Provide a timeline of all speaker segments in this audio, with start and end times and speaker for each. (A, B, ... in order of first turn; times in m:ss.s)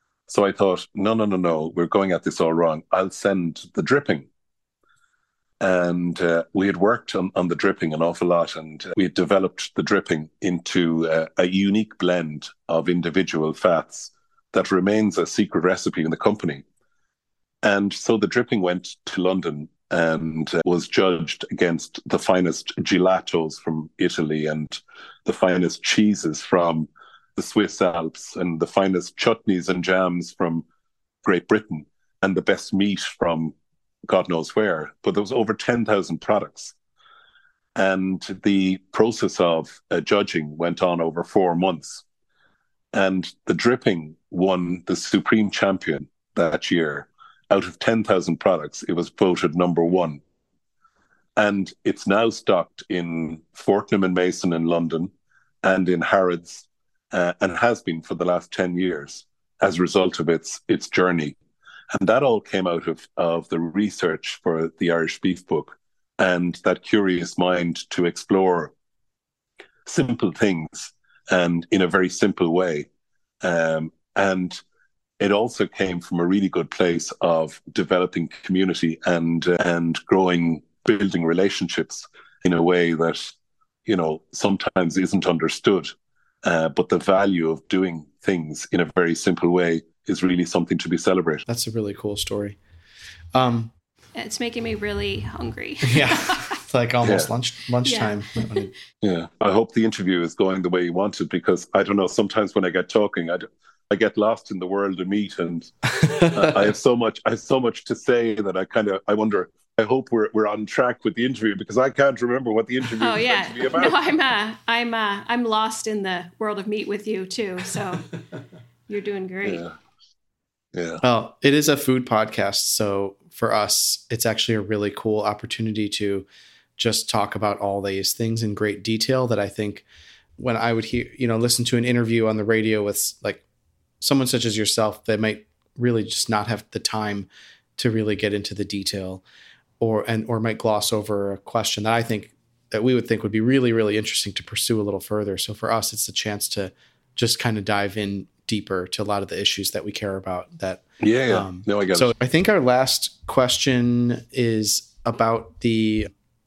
0:00.3-0:04.3 A
0:05.6-0:16.6 A
0:17.6-0:30.6 A
0:31.2-0:33.5 A
0:34.1-0:36.7 A
0:37.7-0:42.0 A
0:42.9-0:50.2 A
0:51.4-0:55.1 A
0:55.6-1:01.4 A
1:01.9-1:08.7 A
1:09.8-1:12.9 A
1:13.4-1:14.6 A
1:15.2-1:23.3 A
1:23.8-1:25.9 A
1:26.4-1:31.4 A
1:31.5-1:32.6 B
1:33.3-1:33.7 B
1:34.2-1:36.5 C
1:35.8-1:38.7 B
1:37.0-1:37.3 A
1:37.8-1:38.7 C
1:39.0-1:54.0 A
1:46.0-1:46.5 B
1:53.0-1:58.1 C
1:58.9-1:59.6 C
1:59.4-1:59.7 A
2:00.7-2:01.0 A
2:01.0-2:09.8 B
2:10.4-2:13.4 B
2:14.0-2:19.2 B
2:19.8-2:36.1 B
2:31.0-2:32.1 A